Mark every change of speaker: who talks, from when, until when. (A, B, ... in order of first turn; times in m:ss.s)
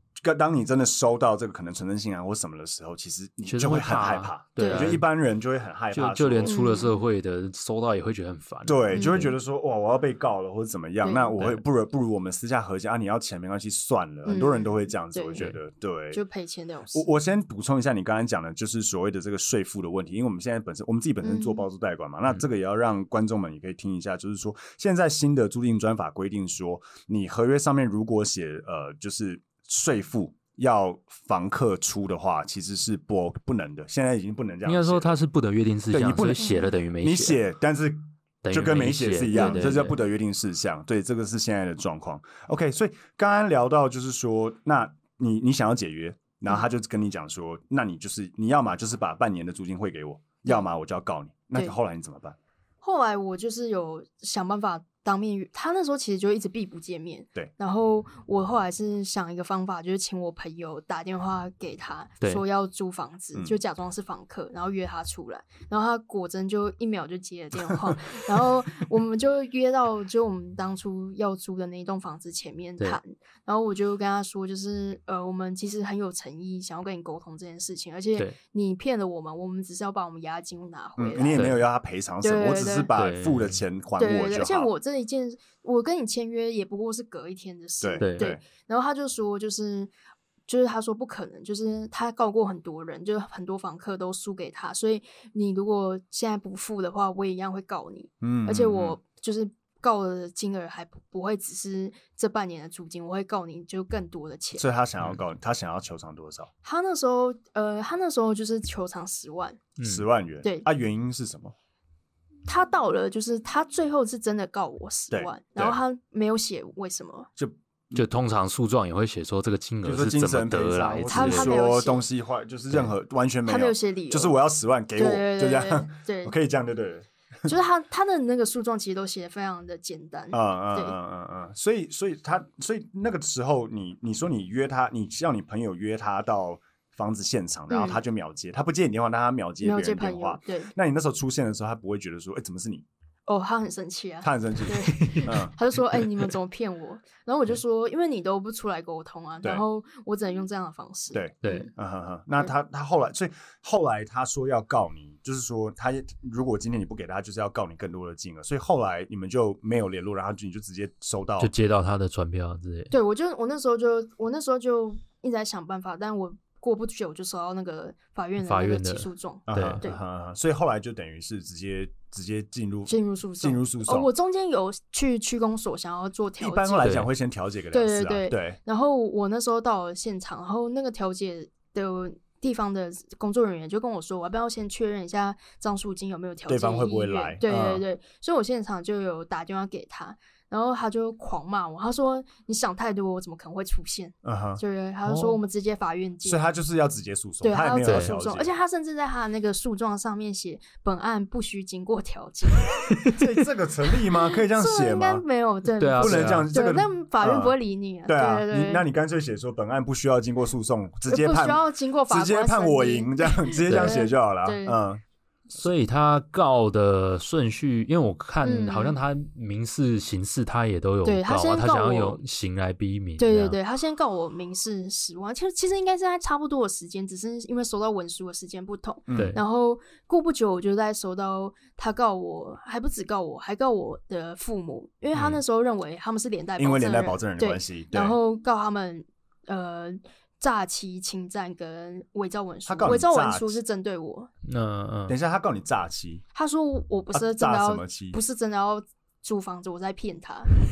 0:00.2-0:06.6 A
0:03.4-0:05.0 B
0:04.6-0:04.9 C
0:05.9-0:09.3 B
0:06.4-0:07.0 C
0:08.6-0:16.2 A
0:08.9-0:09.2 C
0:11.0-0:11.4 C
0:14.2-0:15.4 C
0:16.1-0:17.0 C
0:16.9-0:35.2 A
0:21.2-0:21.6 C
0:34.6-0:37.4 B
0:35.9-0:52.4 A
0:36.4-0:36.7 C
0:38.4-0:40.0 B
0:39.3-0:39.7 C
0:52.8-1:21.4 C
1:21.0-1:24.7 A
1:21.3-1:21.6 B
1:22.2-1:22.9 C
1:22.9-1:23.6 B
1:24.0-1:29.9 C
1:27.8-1:28.4 A
1:28.0-1:28.3 B
1:30.5-1:44.7 C
1:38.2-1:39.0 A
1:44.5-1:46.5 A
1:46.6-1:49.6 C
1:49.8-1:50.0 B
1:49.8-1:51.5 A
1:52.5-1:57.3 C
1:55.1-1:55.8 A
1:57.4-1:58.0 A
1:57.9-2:01.5 B
1:59.8-2:07.5 A
2:01.1-2:02.0 C
2:03.4-2:04.3 C
2:04.9-2:06.3 C
2:07.5-2:11.0 C
2:10.3-2:22.8 A
2:17.7-2:18.0 C
2:19.6-2:20.7 C
2:23.3-2:31.7 C
2:24.2-2:25.5 A
2:24.9-2:25.4 B
2:31.1-2:41.5 A
2:31.4-2:31.7 B
2:41.4-2:42.9 B
2:42.9-2:50.0 C
2:48.4-2:49.8 B
2:49.5-2:54.1 A
2:52.9-2:56.9 C
2:56.4-2:58.6 A
2:56.8-2:57.1 B
2:57.7-3:16.4 C
3:06.5-3:07.8 A
3:14.2-3:14.6 A
3:15.0-3:15.4 B
3:16.2-3:18.5 A
3:17.4-3:22.8 C
3:17.8-3:18.1 B
3:22.9-3:23.2 B
3:23.1-3:25.2 A
3:24.5-3:28.8 C
3:25.8-3:26.5 B
3:26.0-3:27.6 A
3:28.1-3:35.0 A
3:31.1-3:34.8 C
3:33.7-3:34.0 B
3:35.5-3:43.6 B
3:38.4-3:39.0 C
3:41.0-3:42.2 C
3:43.2-4:04.3 C
3:49.1-3:49.4 A
3:49.1-3:49.4 B
3:55.1-3:55.4 B
3:56.6-3:58.2 A
4:02.6-4:03.6 A
4:04.4-4:05.2 B
4:05.1-4:06.2 A
4:06.3-4:10.5 C
4:07.1-4:08.2 A